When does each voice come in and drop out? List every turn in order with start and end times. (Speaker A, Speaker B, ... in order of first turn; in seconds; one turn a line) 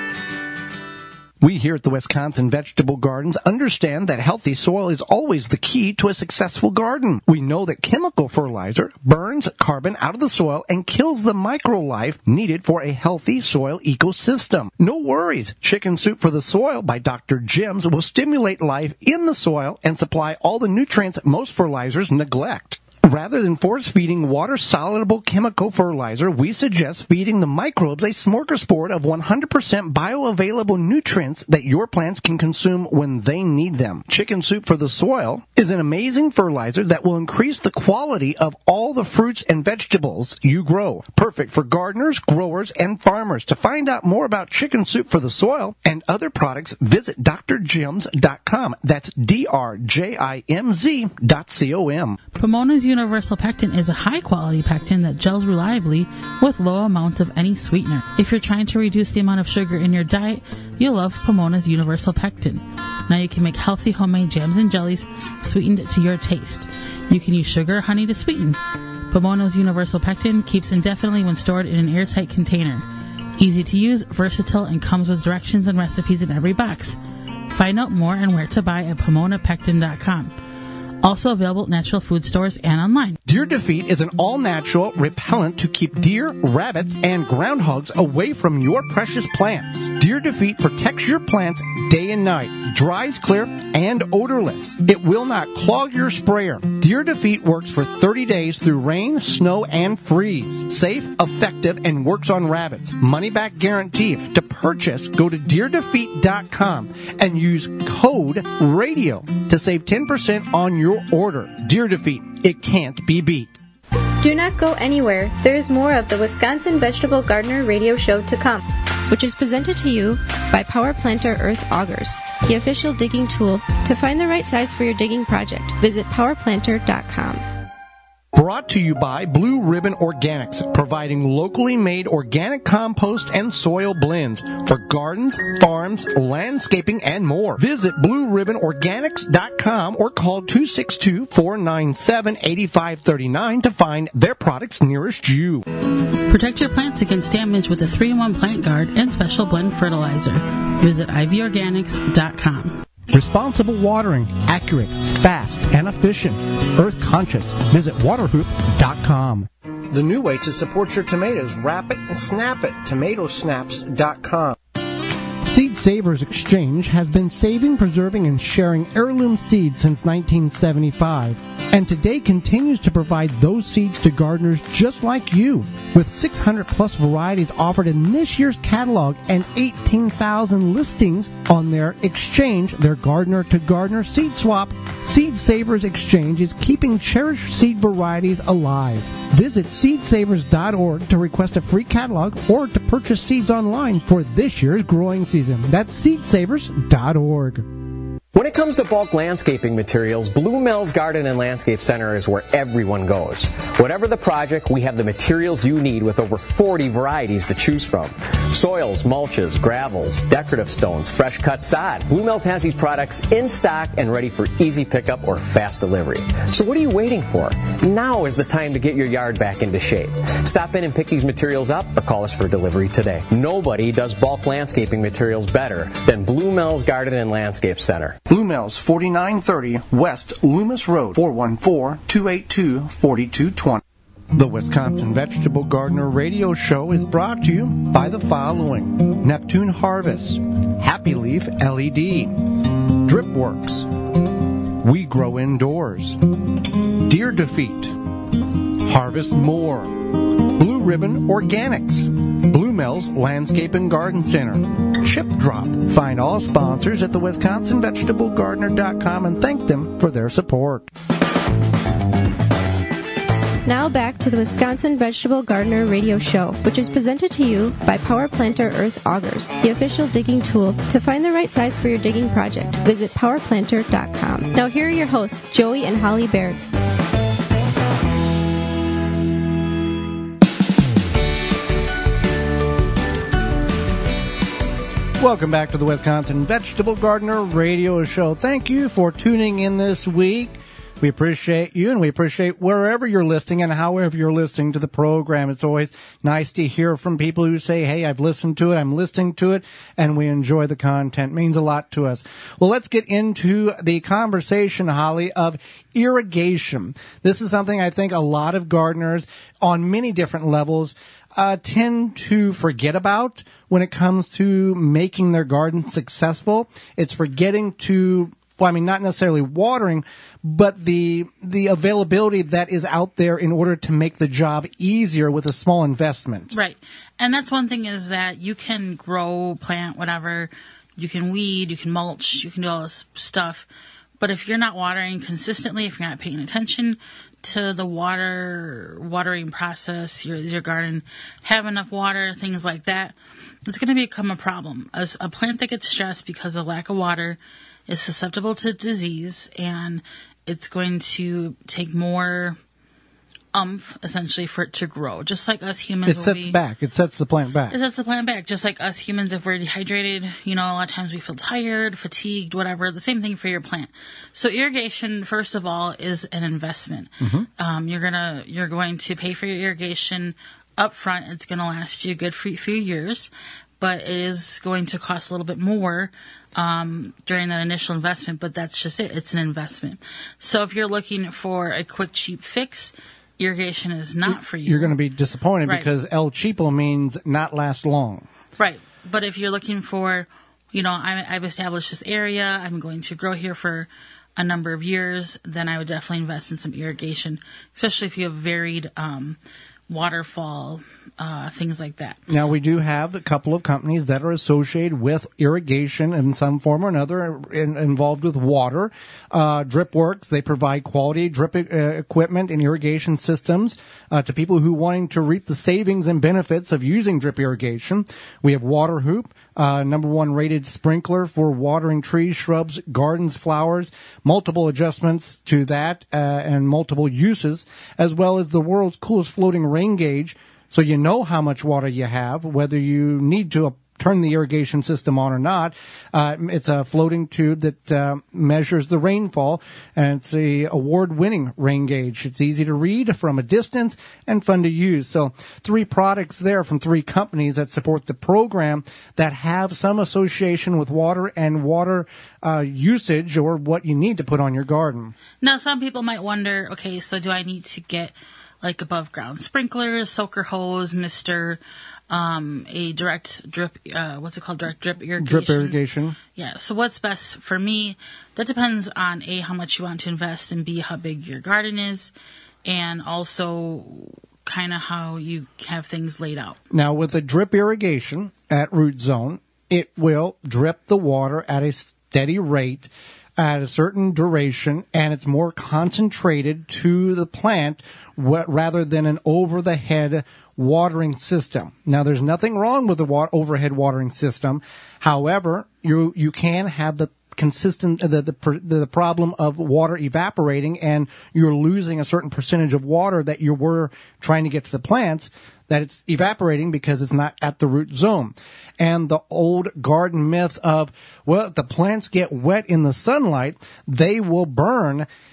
Speaker A: 1.4-52.2
Speaker B: 52.3-68.6
Speaker B: 69.1-72.8
Speaker B: 73.4-77.0
Speaker B: 77.5-80.3
Speaker B: 81.0-83.2
Speaker A: 83.2-113.6
Speaker C: 114.2-127.4
Speaker A: 128.3-145.7
Speaker B: 146.3-152.8
Speaker A: 153.1-164.6
Speaker A: 165.4-197.7
Speaker D: 198.3-228.2
Speaker A: 228.3-233.8
Speaker A: 234.3-243.9
Speaker A: 244.8-246.2
Speaker A: 246.9-248.0
Speaker A: 248.7-260.9
Speaker C: 263.6-276.6
Speaker A: 285.2-326.5
Speaker B: 326.5-333.6
Speaker B: 334.2-343.1
Speaker B: 343.6-352.6
Speaker B: 353.5-356.6
Speaker A: 356.0-357.8
Speaker B: 357.7-384.9
Speaker A: 367.2-367.5
Speaker A: 384.3-388.3
Speaker B: 388.6-399.4
Speaker B: 399.9-402.2
Speaker A: 402.3-455.1
Speaker B: 455.4-465.8
Speaker A: 465.2-466.2
Speaker B: 466.4-472.1
Speaker B: 472.6-476.6
Speaker A: 476.7-515.1